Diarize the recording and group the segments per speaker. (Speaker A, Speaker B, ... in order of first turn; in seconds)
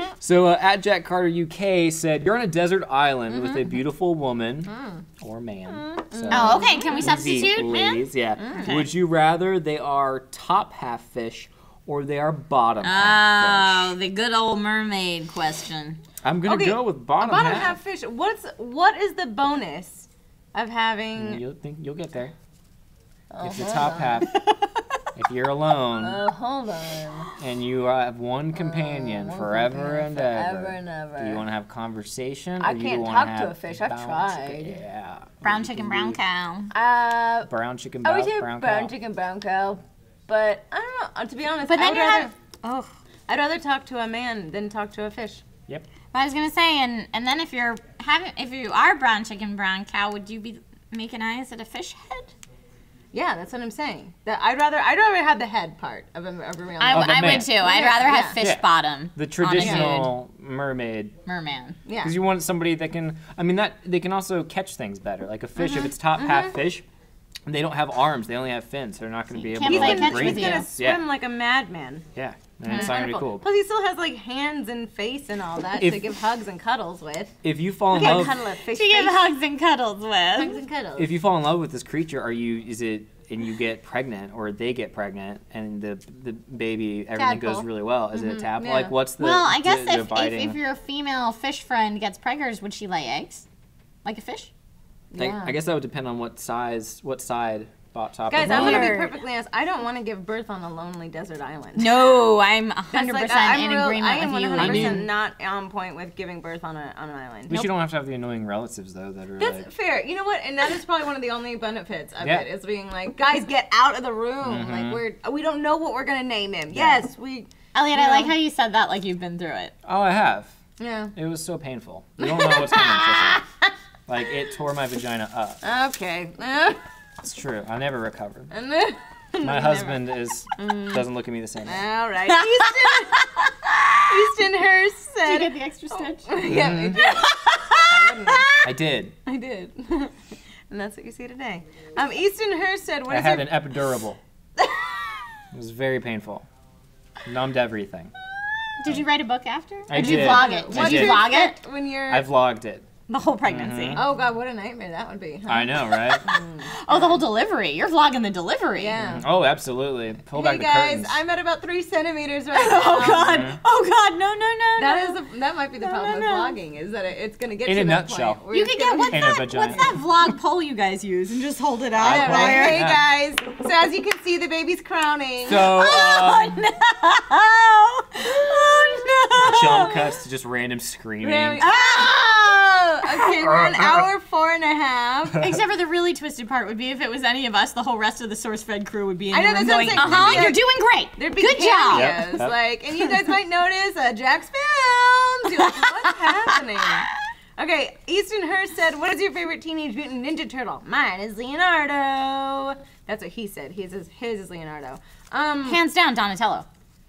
Speaker A: 0.2-13.9, 16.2-17.8, 21.2-22.3, 23.4-24.4, 25.2-26.2, 27.4-36.2, 37.5-38.9, 56.9-57.5, 58.4-61.2, 62.0-66.8, 67.5-71.0, 72.2-73.5, 75.8-76.1, 77.4-78.4, 81.0-90.6, 95.2-99.0, 104.6-105.1, 107.5-109.7, 112.2-112.5, 114.4-115.0, 116.7-117.0, 119.8-120.6, 121.2-123.5, 124.1-125.6, 127.2-128.5, 129.4-131.9, 136.4-137.0, 138.6-139.2, 143.1-144.2, 145.5-146.5, 147.2-148.1, 149.9-151.3, 152.1-152.9, 153.5-154.0, 155.5-156.2, 159.0-161.1, 163.1-163.6, 167.7-168.4, 169.1-169.9, 172.0-173.0, 175.4-176.6, 179.4-181.6, 183.6-184.0, 185.3-185.6, 190.0-190.5, 191.9-192.6
Speaker B: 3.3-3.8, 4.7-5.0, 5.7-7.1, 8.4-8.8, 16.4-21.4, 23.3-24.2, 26.0-27.3, 28.6-31.4, 32.6-34.8, 36.7-37.5, 38.0-42.3, 43.3-45.4, 53.1-58.4, 59.6-59.9, 61.9-62.2, 69.6-72.0, 72.7-77.4, 77.9-79.2, 80.4-81.2, 88.1-89.0, 95.1-95.6, 98.3-102.2, 102.9-107.7, 109.4-118.3, 120.8-121.1, 122.2-123.5, 125.6-126.8, 128.5-131.1, 131.6-133.3, 134.1-137.3, 137.8-138.5, 139.2-140.2, 140.7-143.7, 144.6-145.2, 149.9-152.3, 154.0-157.2, 158.8-159.2, 160.3-163.5, 164.8-169.8, 172.0-175.8, 181.2-185.4, 189.3-190.6, 191.2-197.1, 197.6-205.8
Speaker C: 6.3-8.9, 12.8-16.0, 35.4-36.7, 41.6-42.9, 46.1-52.3, 56.8-60.1, 61.3-61.8, 65.6-65.9, 69.4-70.7, 77.9-80.6, 87.1-87.7, 89.2-93.5, 94.0-94.5, 98.3-99.2, 101.8-105.0, 117.7-119.7, 132.3-134.0, 135.2-138.6, 148.8-151.6, 153.1-154.0, 156.0-159.0, 162.5-165.2, 165.8-166.6, 168.5-172.8, 175.6-180.1, 181.6-182.6, 183.1-183.5, 185.4-192.2, 195.5-197.1, 205.6-206.7